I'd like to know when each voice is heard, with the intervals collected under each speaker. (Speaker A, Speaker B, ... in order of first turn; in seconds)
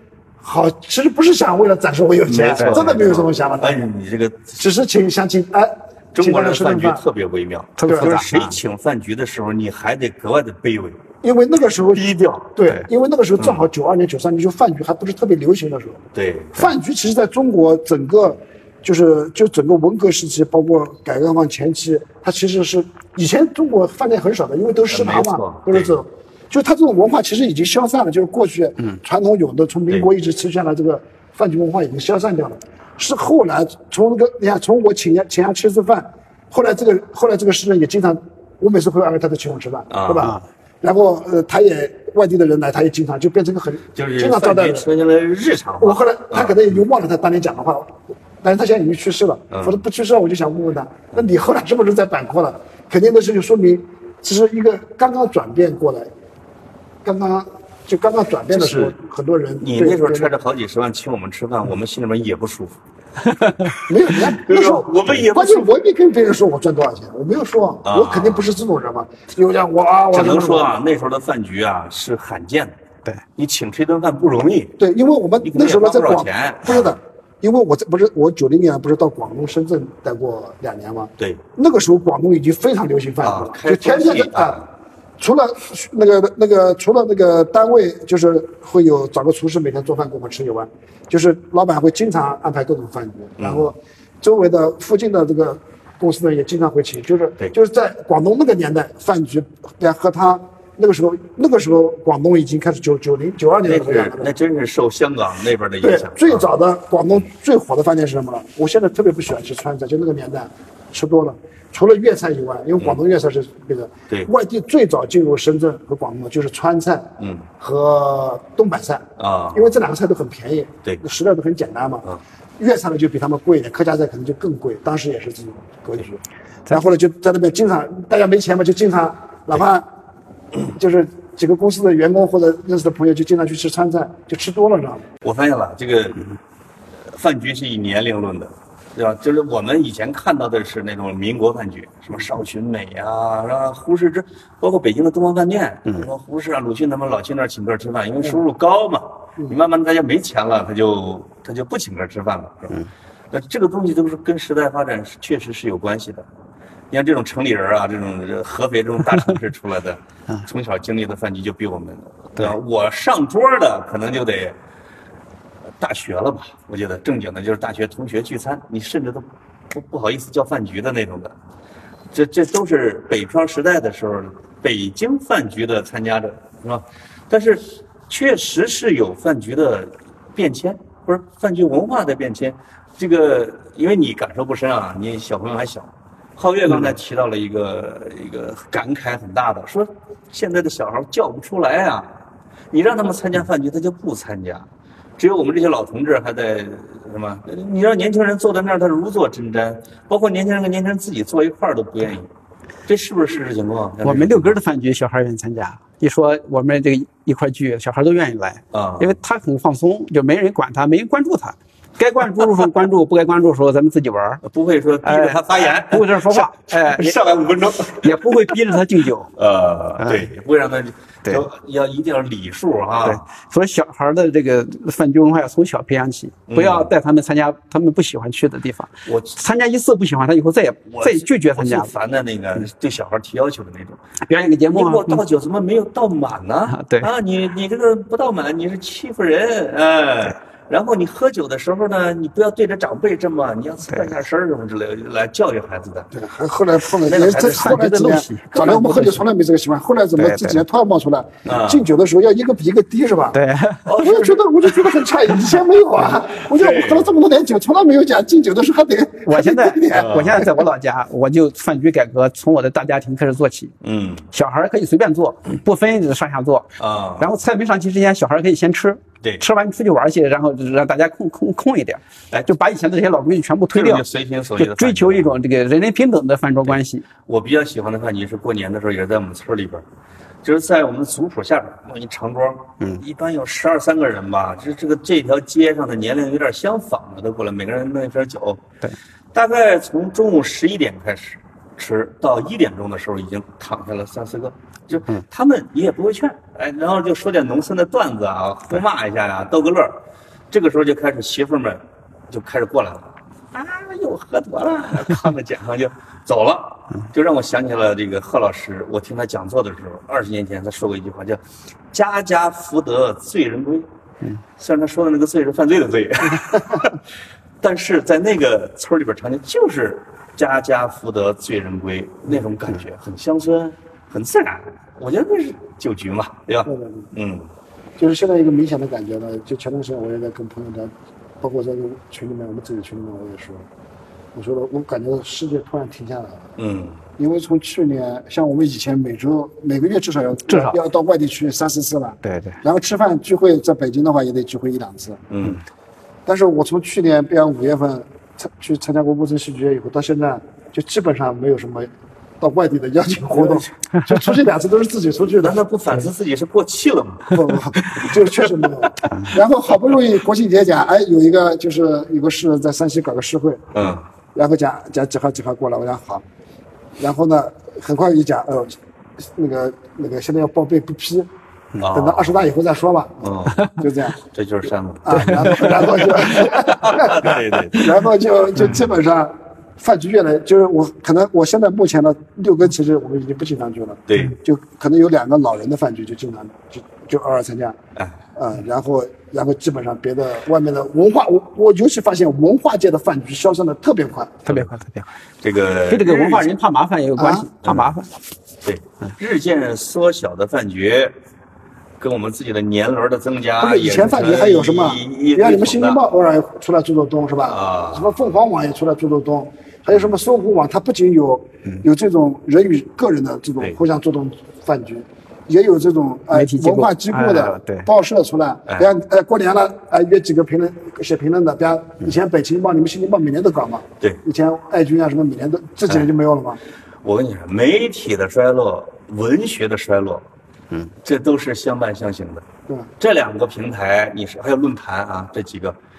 Speaker A: 0.4-3.9, 4.6-7.0, 7.8-8.2, 11.2-16.0, 16.5-44.9, 45.8-56.1, 57.0-60.3, 63.9-70.8, 74.8-84.6, 85.2-104.3, 105.8-122.1, 122.6-129.9, 130.7-135.1, 246.1-253.4, 254.0-260.5, 326.7-327.1, 328.0-333.7, 334.3-336.5, 337.2-345.2, 346.3-355.6, 357.3-363.8, 364.3-366.2, 367.0-371.3, 371.9-374.2, 375.0-387.8, 388.4-394.6, 397.2-397.5, 403.6-426.6
Speaker B: 2.3-4.6, 6.1-11.0, 11.9-12.6, 13.4-13.7, 16.1-16.7, 24.9-26.0, 39.9-40.4, 44.0-46.6, 49.5-49.8, 58.5-59.0, 59.6-62.8, 64.1-65.8, 67.8-68.5, 70.1-72.8, 73.4-74.8, 75.4-77.0, 81.2-81.4, 83.2-84.7, 93.4-93.7, 103.7-106.5, 117.2-117.5, 119.2-119.7, 135.2-136.3, 137.1-156.3, 156.9-164.6, 165.8-171.4, 172.1-192.2, 192.7-194.7, 195.2-202.3, 202.9-204.6, 208.7-209.2, 214.4-218.8, 219.4-223.2, 226.5-226.9, 229.1-229.4, 230.9-234.0, 234.7-246.1, 247.1-249.0, 251.5-251.9, 253.8-254.5, 256.4-257.1, 259.9-260.5, 263.8-264.3, 266.8-267.3, 273.7-275.3, 276.7-279.9, 280.4-288.6, 289.3-313.9, 314.6-317.0, 317.6-327.5, 336.6-337.0, 345.3-345.6, 355.4-358.1, 363.7-364.1, 371.8-372.4, 373.2-373.7, 374.3-377.9, 384.1-384.4, 395.4-396.5, 397.6-397.9, 398.6-401.2, 402.0-406.0, 407.4-408.1, 427.0-430.3, 431.0-432.5, 433.0-435.8
Speaker C: 7.8-8.6, 204.1-214.4, 215.0-217.2, 217.9-219.3, 220.0-220.3, 223.0-231.9, 234.3-235.2, 236.7-237.1, 247.6-249.2, 250.2-250.6, 253.3-254.0, 259.3-263.7, 264.3-274.1, 274.6-277.1, 340.5-340.8, 342.2-342.6, 394.5-395.1, 395.9-398.1, 416.3-417.9